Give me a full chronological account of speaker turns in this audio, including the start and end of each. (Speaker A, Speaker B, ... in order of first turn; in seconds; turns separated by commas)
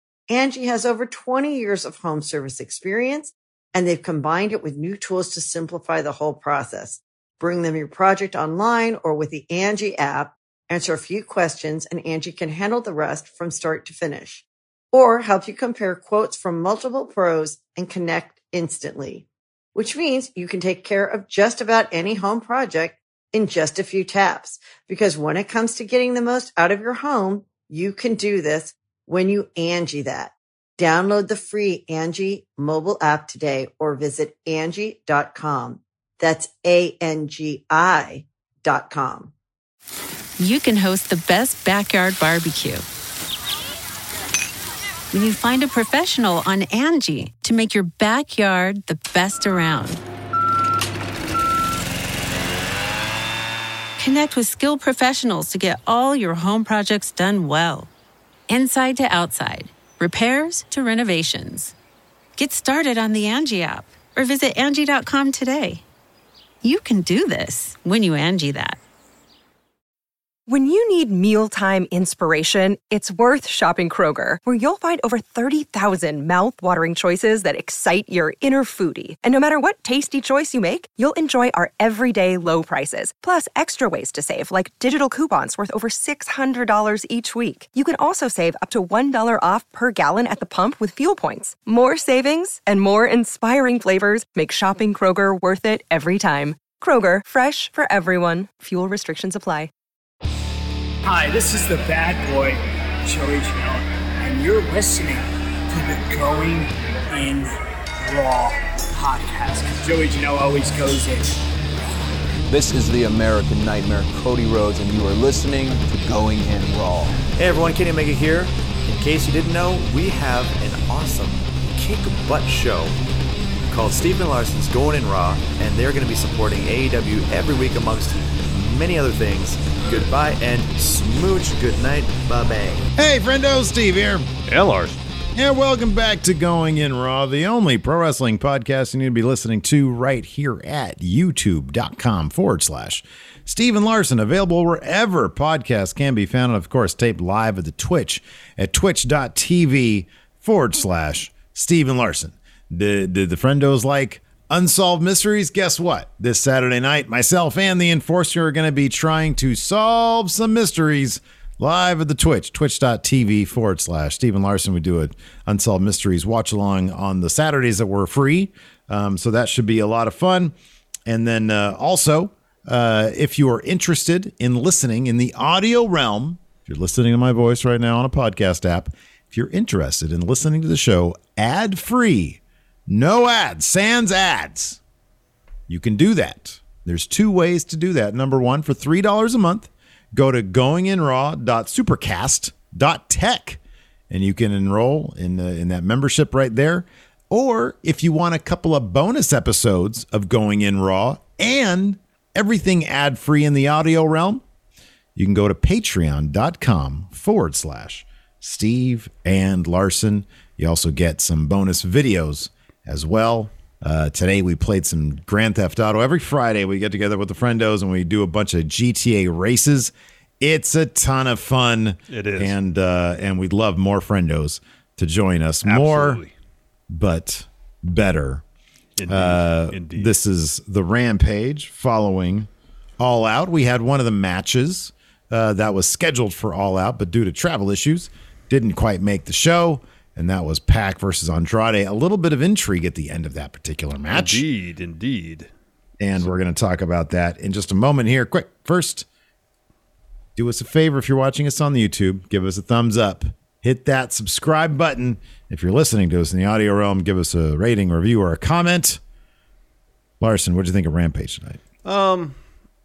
Speaker A: 0.3-39.3, Speaker B: 40.4-42.9, Speaker B: 45.1-50.0, Speaker B: 54.0-57.9, Speaker B: 58.5-61.7, Speaker B: 62.4-65.8, Speaker B: 66.6-68.8, Speaker C: 70.5-99.7, Speaker D: 101.0-111.4, Speaker E: 112.5-117.2, Speaker F: 117.3-123.0, Speaker F: 123.7-132.9, Speaker G: 133.0-134.3, Speaker H: 134.5-135.0, Speaker G: 135.3-170.5, Speaker G: 171.1-184.8, Speaker G: 185.7-204.4, Speaker G: 205.2-226.2, Speaker H: 222.1-222.6, Speaker H: 225.6-226.3, Speaker G: 226.9-228.4, Speaker H: 229.0-230.1, Speaker G: 229.1-244.4, Speaker H: 244.1-245.5, Speaker G: 246.0-249.1, Speaker G: 250.4-259.0, Speaker G: 260.2-261.6, Speaker H: 261.9-262.4